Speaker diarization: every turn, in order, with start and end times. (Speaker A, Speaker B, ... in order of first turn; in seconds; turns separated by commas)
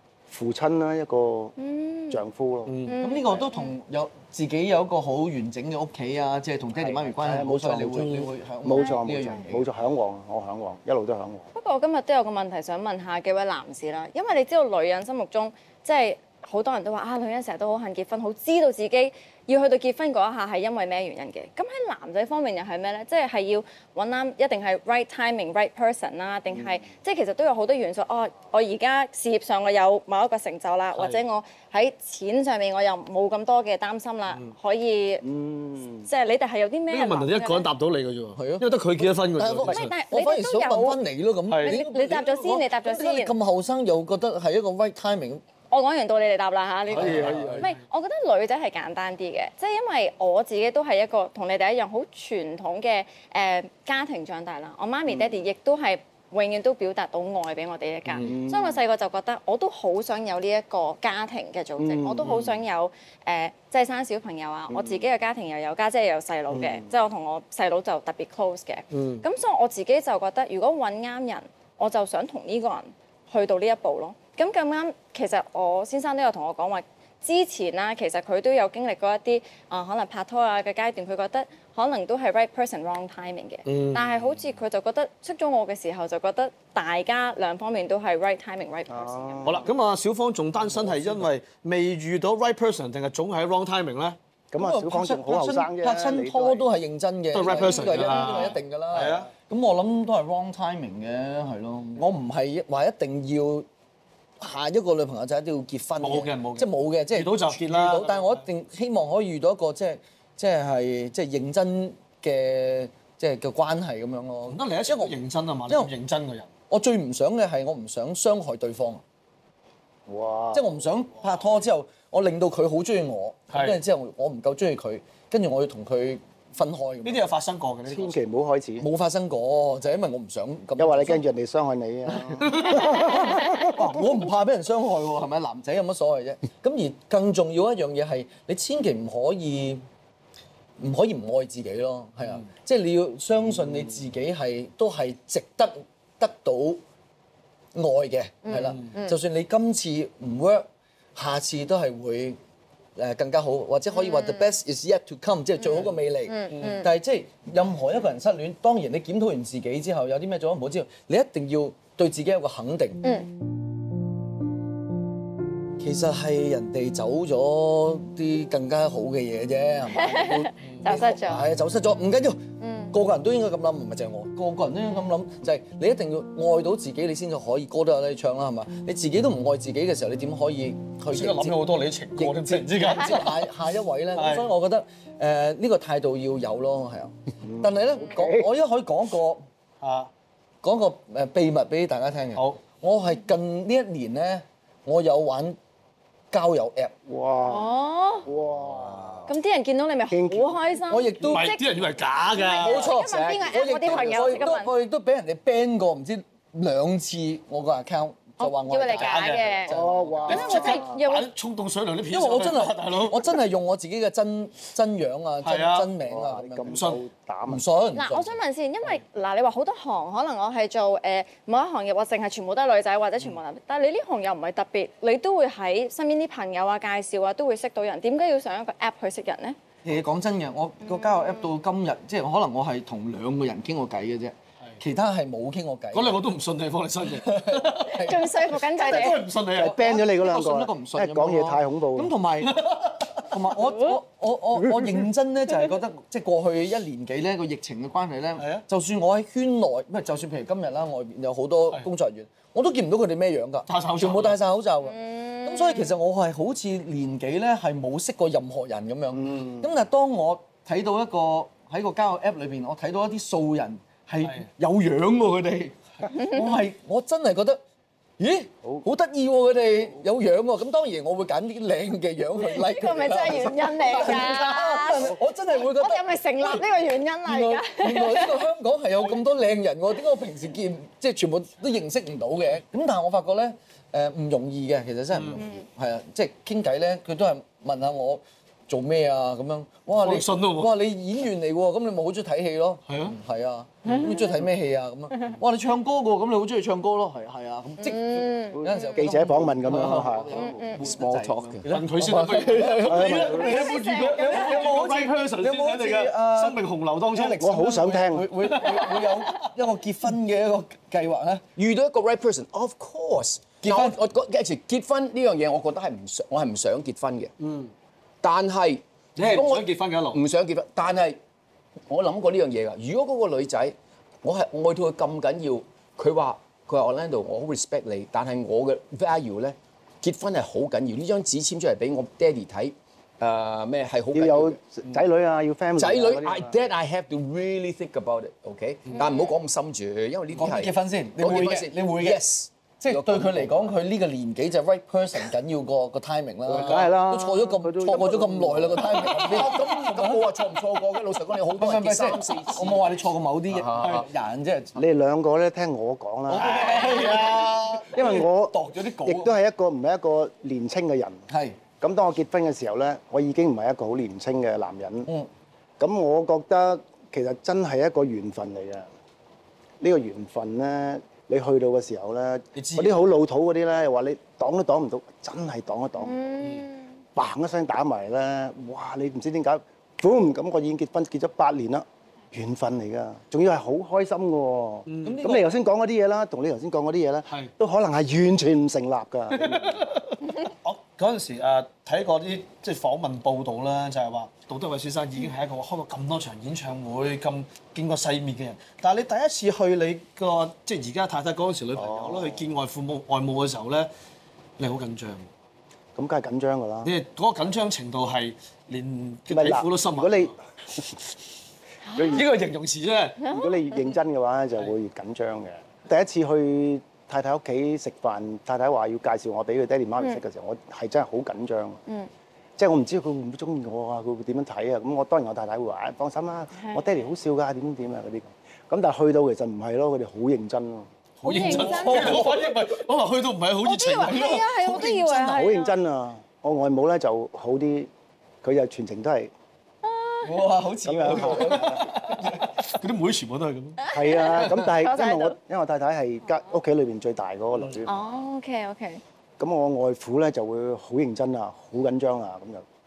Speaker A: 0.3-1.6, Speaker B: 1.6-2.2, Speaker A: 2.1-2.8, Speaker C: 2.7-3.0, Speaker B: 2.9-3.7, Speaker D: 3.0-9.7, Speaker A: 6.8-11.5, Speaker C: 8.0-8.3, Speaker B: 8.7-9.5, Speaker B: 11.6-35.2, Speaker A: 26.5-26.8, Speaker C: 31.0-31.2, Speaker A: 35.2-36.1, Speaker B: 36.1-37.7, Speaker C: 36.9-39.9, Speaker D: 38.4-45.4, Speaker B: 39.6-41.0, Speaker C: 41.5-41.8, Speaker B: 41.6-43.3, Speaker B: 45.7-89.7, Speaker C: 46.9-47.7, Speaker D: 46.9-47.7, Speaker A: 58.2-58.8, Speaker A: 61.8-62.4, Speaker C: 62.2-62.6, Speaker A: 64.7-65.0, Speaker A: 66.5-66.9, Speaker C: 68.9-69.2, Speaker C: 83.7-84.2, Speaker A: 88.9-89.7, Speaker C: 89.4-94.2, Speaker D: 90.7-91.2, Speaker A: 94.5-96.7, Speaker D: 94.6-103.7, Speaker C: 97.3-99.3, Speaker B: 97.7-98.5, Speaker D: 104.4-115.2, Speaker C: 106.0-108.4, Speaker C: 114.5-116.5, Speaker D: 116.7-119.0, Speaker A: 120.1-120.7, Speaker D: 120.5-127.3, Speaker C: 123.5-123.8, Speaker C: 127.0-128.2, Speaker A: 127.9-128.9, Speaker D: 128.8-131.2, Speaker A: 130.8-133.8, Speaker D: 132.1-139.8, Speaker C: 132.5-132.8, Speaker D: 140.8-146.8, Speaker D: 147.7-152.4, Speaker B: 148.4-149.2, Speaker C: 148.6-148.9, Speaker D: 153.0-163.0, Speaker B: 153.9-154.5, Speaker B: 155.6-156.9, Speaker C: 156.5-156.8, Speaker B: 163.0-163.3, Speaker D: 165.8-181.6, Speaker B: 169.9-171.5, Speaker C: 170.6-170.9, Speaker B: 172.6-172.9, Speaker C: 181.1-183.4, Speaker D: 182.2-189.4, Speaker C: 184.2-184.5, Speaker A: 187.4-188.5, Speaker C: 189.8-190.1, Speaker D: 190.6-195.6, Speaker C: 192.4-192.6, Speaker D: 196.3-196.9, Speaker A: 197.1-197.7, Speaker B: 197.5-198.3, Speaker A: 198.2-199.3, Speaker B: 199.3-204.7, Speaker A: 200.1-200.6, Speaker D: 200.9-201.6, Speaker C: 201.2-202.9, Speaker D: 202.6-210.8, Speaker E: 203.1-203.5, Speaker B: 208.4-211.3, Speaker C: 208.9-213.4, Speaker A: 209.7-211.0, Speaker D: 212.1-216.9, Speaker C: 215.4-215.9, Speaker A: 216.0-217.6, Speaker C: 216.7-217.0, Speaker D: 217.5-218.4, Speaker B: 217.9-229.6, Speaker D: 229.8-236.2, Speaker B: 230.8-231.5, Speaker C: 235.9-239.8, Speaker D: 237.0-238.6, Speaker B: 237.8-239.2, Speaker A: 239.5-242.1, Speaker D: 239.6-267.6, Speaker C: 242.5-243.3, Speaker C: 248.4-248.6, Speaker C: 253.7-254.4, Speaker B: 254.9-255.9, Speaker A: 259.2-259.7, Speaker B: 266.1-266.4, Speaker D: 268.2-276.7, Speaker B: 272.4-278.4, Speaker D: 277.2-311.4, Speaker C: 285.1-285.4, Speaker B: 285.4-285.6, Speaker C: 290.0-290.7, Speaker C: 292.9-293.2, Speaker B: 293.9-294.4, Speaker B: 297.8-299.0, Speaker A: 298.6-300.5, Speaker B: 300.3-300.9, Speaker E: 300.8-301.7, Speaker C: 301.7-307.8, Speaker A: 302.9-303.8, Speaker B: 303.4-304.6, Speaker A: 307.3-308.3, Speaker C: 308.4-309.4, Speaker E: 311.6-317.3, Speaker D: 313.6-314.0, Speaker C: 317.4-317.7, Speaker E: 318.2-321.2, Speaker C: 319.2-320.2, Speaker E: 321.9-334.8, Speaker A: 334.1-336.6, Speaker E: 335.8-343.7, Speaker B: 339.0-339.3, Speaker D: 340.4-342.3, Speaker D: 342.8-350.3, Speaker A: 346.5-349.4, Speaker E: 348.9-354.1, Speaker D: 351.6-354.8, Speaker C: 353.8-354.1, Speaker A: 354.8-357.1, Speaker D: 356.3-359.3, Speaker C: 356.3-358.1, Speaker A: 357.9-361.2, Speaker D: 361.3-361.6, Speaker A: 361.8-365.1, Speaker A: 365.8-368.9, Speaker A: 369.8-376.2, Speaker D: 372.6-372.9, Speaker C: 372.6-372.9, Speaker B: 376.0-376.9, Speaker A: 377.1-389.9, Speaker C: 384.9-385.3, Speaker D: 385.0-385.5, Speaker C: 389.3-403.9, Speaker A: 401.8-402.5, Speaker C: 404.6-405.3, Speaker A: 405.9-406.9, Speaker C: 406.8-410.3, Speaker A: 409.3-410.9, Speaker B: 411.9-412.3, Speaker A: 411.9-412.3, Speaker C: 412.1-413.3, Speaker B: 413.2-413.9, Speaker A: 413.2-421.8, Speaker A: 422.6-430.9, Speaker B: 426.6-427.0, Speaker C: 431.2-434.5, Speaker D: 431.2-432.5, Speaker B: 431.2-432.4, Speaker B: 433.6-435.7, Speaker D: 434.2-435.4, Speaker A: 435.2-437.9, Speaker A: 438.4-439.3, Speaker B: 439.8-440.5, Speaker D: 440.2-442.5, Speaker A: 440.8-441.9, Speaker C: 441.1-443.9, Speaker B: 443.8-445.4, Speaker A: 443.9-448.1, Speaker C: 447.6-447.8, Speaker B: 447.9-449.0, Speaker A: 449.4-452.6